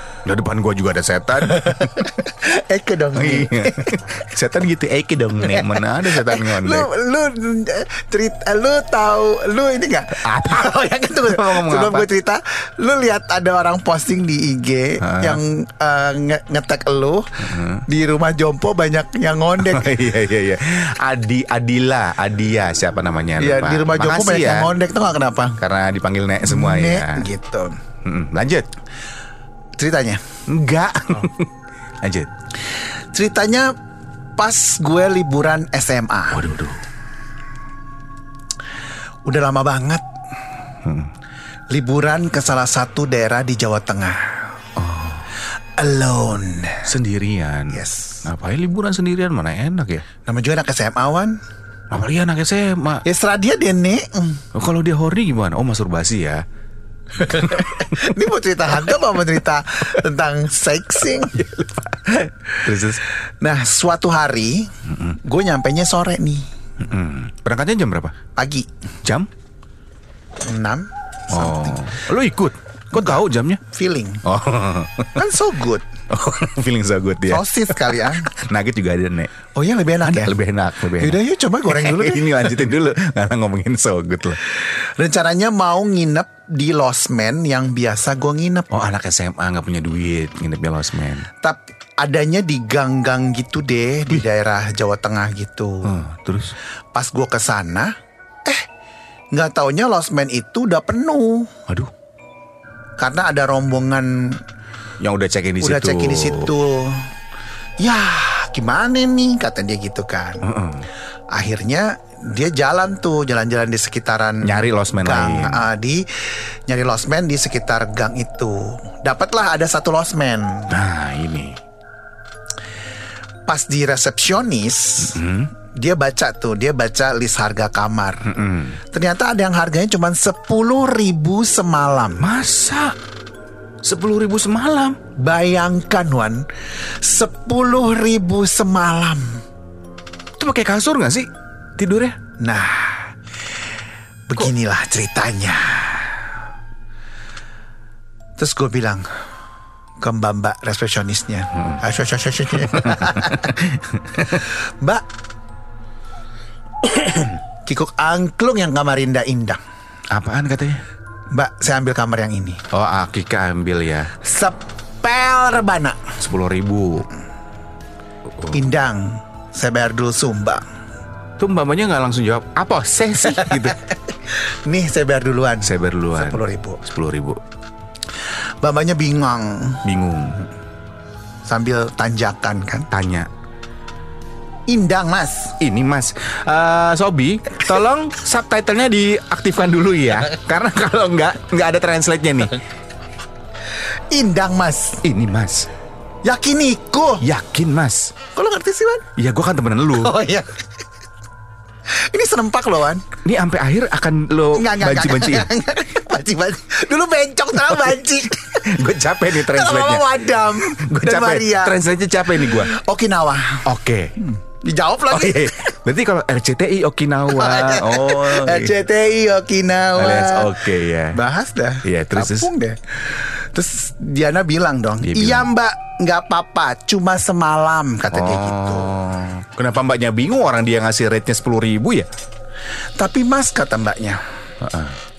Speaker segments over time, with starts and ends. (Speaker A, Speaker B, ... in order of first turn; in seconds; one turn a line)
Speaker A: 0.2-2.1
Speaker B: 1.4-4.1
Speaker A: 3.1-6.9
Speaker B: 5.4-19.9
Speaker A: 10.2-12.1
Speaker A: 15.0-15.4
Speaker A: 17.4-17.8
Speaker A: 19.6-24.7
Speaker B: 23.4-25.6
Speaker A: 25.6-27.3
Speaker B: 26.4-27.7
Speaker A: 28.1-28.7
Speaker B: 29.8-30.2
Speaker A: 30.5-31.5
Speaker A: 32.0-32.3
Speaker B: 32.7-33.7
Speaker B: 34.4-36.5
Speaker A: 36.3-36.8
Speaker B: 39.3-40.0
Speaker A: 40.8-41.1
Speaker B: 41.7-44.5
Speaker A: 44.8-45.3
Speaker B: 45.8-46.9
Speaker A: 46.9-50.0
Speaker B: 47.7-48.3
Speaker B: 50.2-51.4
Speaker A: 51.9-53.0
Speaker B: 53.0-54.5
Speaker A: 54.5-56.4
Speaker B: 57.2-61.4
Speaker A: 57.2-58.1
Speaker A: 61.1-63.0
Speaker B: 63.4-66.5
Speaker A: 64.9-65.2
Speaker A: 66.8-68.1
Speaker B: 68.4-68.7
Speaker A: 69.0-69.3
Speaker B: 70.5-71.9
Speaker A: 71.3-73.6
Speaker B: 72.9-74.2
Speaker A: 74.2-75.4
Speaker B: 75.2-75.8
Speaker A: 76.1-79.3
Speaker B: 77.3-78.3
Speaker B: 79.5-80.4
Speaker A: 80.0-84.4
Speaker B: 81.0-82.6
Speaker B: 84.5-88.7
Speaker A: 88.7-91.3
Speaker B: 91.4-95.9
Speaker A: 95.8-96.5
Speaker B: 96.9-97.9
Speaker B: 99.3-101.5
Speaker B: 103.0-104.4
Speaker A: 105.0-106.5
Speaker B: 105.6-107.1
Speaker B: 107.8-110.5
Speaker A: 110.4-110.9
Speaker B: 111.3-120.7
Speaker A: 114.4-115.7
Speaker A: 120.7-121.6
Speaker B: 123.5-125.2
Speaker A: 125.0-125.5
Speaker B: 125.8-128.3
Speaker A: 128.2-128.8
Speaker B: 128.9-132.3
Speaker A: 132.2-133.0
Speaker A: 133.8-135.0
Speaker B: 135.2-136.5
Speaker B: 137.0-139.4
Speaker A: 140.4-142.2
Speaker B: 142.4-143.1
Speaker B: 144.3-146.2
Speaker B: 148.4-149.1
Speaker B: 150.0-155.0
Speaker A: 152.8-154.4
Speaker B: 156.9-159.6
Speaker A: 160.1-160.8
Speaker B: 161.3-162.6
Speaker A: 162.7-164.1
Speaker B: 164.2-166.0
Speaker A: 166.2-167.1
Speaker B: 168.5-170.6
Speaker A: 171.4-173.8
Speaker B: 173.3-176.8
Speaker A: 175.6-177.4
Speaker B: 178.3-179.8
Speaker A: 179.8-180.5
Speaker B: 181.5-182.9
Speaker A: 182.9-183.3
Speaker B: 184.7-185.6
Speaker A: 185.6-192.6
Speaker B: 194.1-195.0
Speaker A: 195.0-195.7
Speaker B: 196.2-197.2
Speaker A: 197.2-198.1
Speaker B: 198.3-199.1
Speaker A: 199.2-200.2
Speaker B: 200.0-200.6
Speaker B: 201.9-203.1
Speaker A: 203.2-205.5
Speaker B: 204.6-208.7
Speaker A: 208.6-212.7
Speaker B: 209.3-211.8
Speaker B: 212.4-213.6
Speaker A: 213.7-214.2
Speaker B: 214.2-215.7
Speaker A: 215.1-218.8
Speaker B: 217.3-228.9
Speaker A: 220.0-221.2
Speaker A: 221.8-222.5
Speaker A: 225.0-225.5
Speaker A: 228.1-232.1
Speaker B: 233.0-234.2
Speaker A: 234.6-235.0